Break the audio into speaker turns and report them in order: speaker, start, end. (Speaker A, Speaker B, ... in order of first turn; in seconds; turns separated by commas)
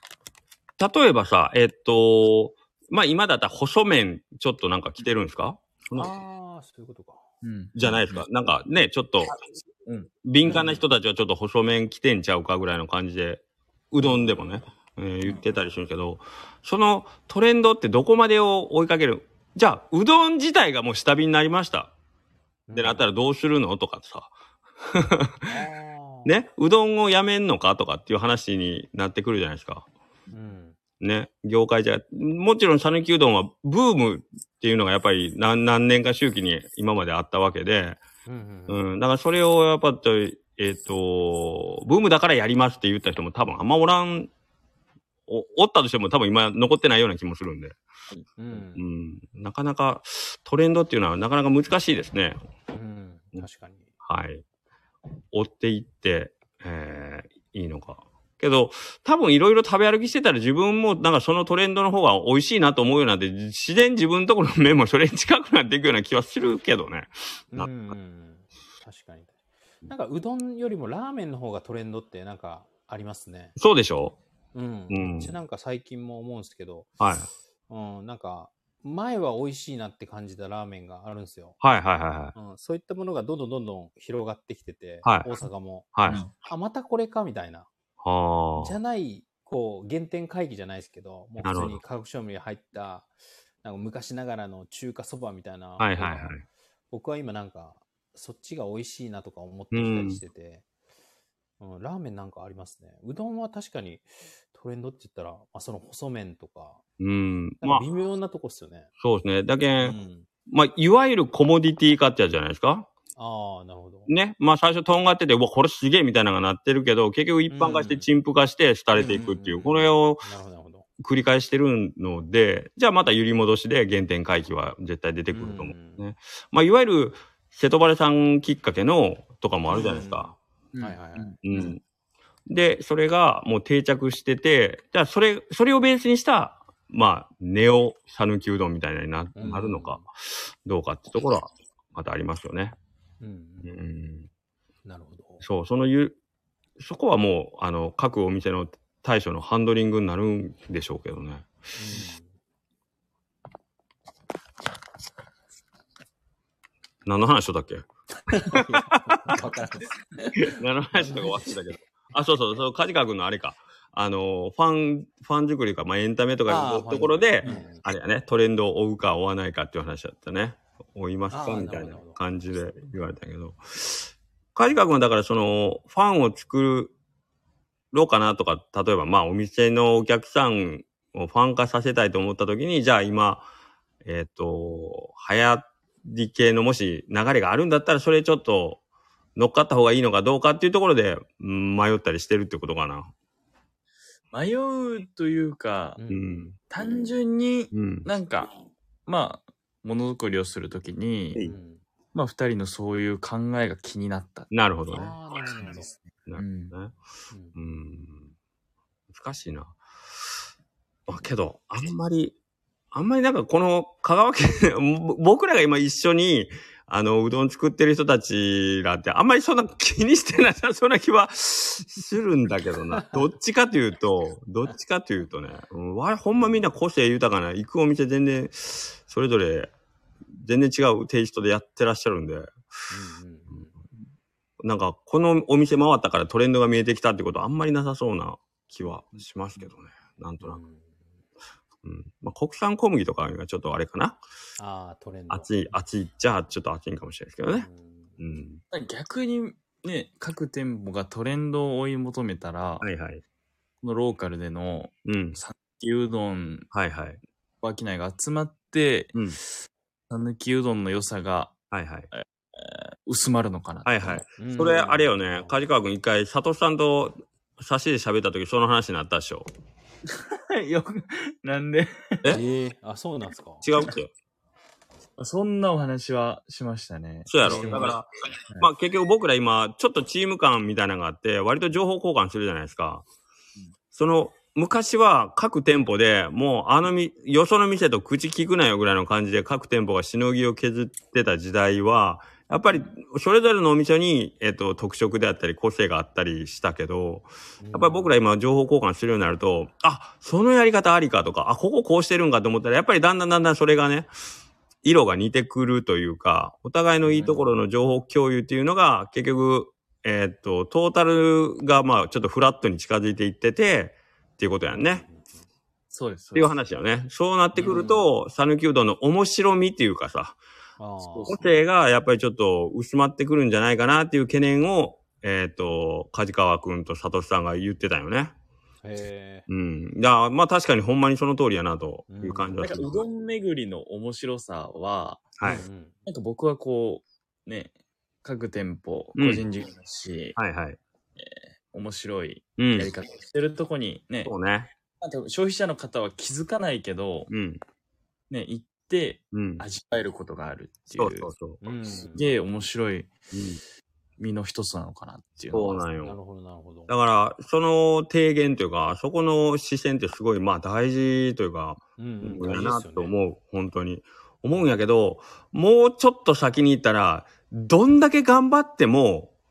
Speaker A: 0.8-6.1, Speaker B: 6.0-7.3, Speaker C: 7.4-8.2, Speaker A: 7.8-9.4, Speaker C: 9.8-10.7, Speaker A: 10.2-21.9, Speaker B: 10.5-10.8, Speaker B: 22.7-23.1, Speaker A: 22.8-25.5, Speaker B: 25.5-26.4, Speaker A: 26.2-29.9, Speaker B: 30.3-30.8, Speaker A: 31.0-38.0, Speaker B: 38.3-38.9, Speaker A: 38.7-44.3, Speaker A: 45.3-47.8, Speaker B: 48.4-48.8, Speaker A: 48.8-52.4, Speaker B: 52.7-53.9, Speaker A: 54.0-54.4, Speaker A: 55.3-67.9, Speaker B: 67.5-69.3, Speaker B: 69.8-73.6, Speaker A: 73.6-74.2, Speaker B: 74.5-76.9, Speaker A: 74.9-75.3, Speaker A: 77.0-77.3, Speaker B: 77.7-81.6, Speaker A: 81.6-82.3, Speaker B: 82.3-87.7, Speaker A: 85.0-85.3, Speaker A: 86.0-86.2, Speaker A: 88.0-88.8, Speaker B: 88.6-93.1, Speaker A: 91.4-91.8, Speaker B: 93.6-96.4, Speaker A: 95.8-96.4, Speaker B: 96.9-100.6, Speaker A: 99.7-100.2, Speaker B: 101.6-106.8, Speaker A: 107.0-107.8, Speaker B: 107.6-108.9, Speaker A: 109.0-110.0, Speaker B: 109.8-110.3, Speaker A: 110.5-112.9, Speaker B: 113.2-114.1, Speaker A: 114.1-120.3, Speaker B: 117.5-118.1, Speaker B: 119.0-120.9, Speaker A: 121.0-130.3, Speaker B: 125.3-126.0, Speaker B: 129.7-131.7, Speaker C: 130.7-131.4, Speaker A: 131.4-131.8, Speaker A: 132.5-142.8, Speaker B: 139.3-140.1, Speaker B: 143.2-143.7, Speaker A: 143.6-144.3, Speaker B: 144.8-145.5, Speaker A: 145.4-146.2, Speaker A: 146.8-151.5, Speaker B: 151.8-152.3, Speaker A: 157.1-159.4, Speaker B: 158.2-161.5, Speaker A: 160.4-176.9, Speaker B: 166.5-167.8, Speaker B: 171.3-172.9, Speaker A: 177.9-183.5, Speaker A: 184.1-188.8, Speaker A: 189.4-193.1, Speaker C: 194.3-196.0, Speaker B: 196.0-196.5, Speaker A: 196.1-196.6, Speaker C: 196.7-198.5, Speaker A: 197.7-198.1, Speaker C: 199.1-201.4, Speaker B: 201.4-201.8, Speaker C: 202.1-204.5, Speaker A: 204.5-205.2, Speaker B: 204.9-205.9, Speaker C: 206.0-206.7, Speaker A: 206.3-206.9, Speaker B: 207.3-207.6, Speaker A: 207.6-208.3, Speaker A: 209.1-209.8, Speaker A: 211.1-212.3, Speaker A: 212.9-229.7, Speaker B: 222.9-223.2, Speaker A: 230.4-232.5, Speaker B: 232.9-233.7, Speaker A: 234.6-240.6, Speaker B: 240.4-241.0, Speaker A: 241.8-244.2, Speaker B: 244.6-245.5, Speaker A: 245.3-247.7, Speaker B: 247.5-248.2, Speaker A: 248.2-248.6, Speaker C: 248.7-252.8, Speaker A: 252.8-253.2, Speaker C: 253.8-256.7, Speaker A: 255.1-255.4, Speaker A: 256.7-257.2, Speaker C: 257.6-259.1, Speaker A: 259.1-259.4, Speaker C: 260.1-261.6, Speaker A: 261.7-262.1, Speaker C: 262.1-264.2, Speaker A: 263.9-269.5, Speaker B: 264.4-265.6, Speaker C: 270.1-272.4, Speaker B: 272.3-273.6, Speaker A: 273.6-274.1, Speaker C: 275.2-278.0, Speaker A: 277.3-278.1, Speaker B: 277.4-277.9, Speaker A: 278.6-283.1, Speaker A: 283.9-304.1, Speaker B: 297.6-298.1, Speaker A: 304.8-315.1, Speaker B: 307.1-307.5, Speaker B: 314.7-315.5, Speaker C: 315.9-316.6, Speaker A: 316.4-320.4, Speaker B: 317.6-318.1, Speaker B: 320.8-321.5, Speaker C: 321.1-321.5, Speaker A: 321.3-328.3, Speaker B: 328.8-329.5, Speaker A: 329.5-333.0, Speaker B: 332.1-332.7, Speaker C: 332.6-335.4, Speaker A: 335.4-335.6, Speaker B: 335.4-336.0, Speaker C: 336.1-337.7, Speaker C: 338.2-340.4, Speaker A: 339.1-339.4, Speaker A: 340.4-340.8, Speaker C: 341.2-344.3, Speaker A: 342.6-342.9, Speaker A: 344.2-344.7, Speaker C: 345.0-347.3, Speaker A: 347.3-347.6, Speaker C: 348.3-351.3, Speaker A: 349.3-349.6, Speaker A: 350.9-351.6, Speaker B: 351.6-352.3, Speaker C: 352.1-353.1, Speaker A: 353.3-353.6, Speaker C: 354.2-355.8, Speaker A: 355.5-356.2, Speaker B: 356.0-356.9, Speaker A: 356.9-369.3, Speaker B: 362.0-363.1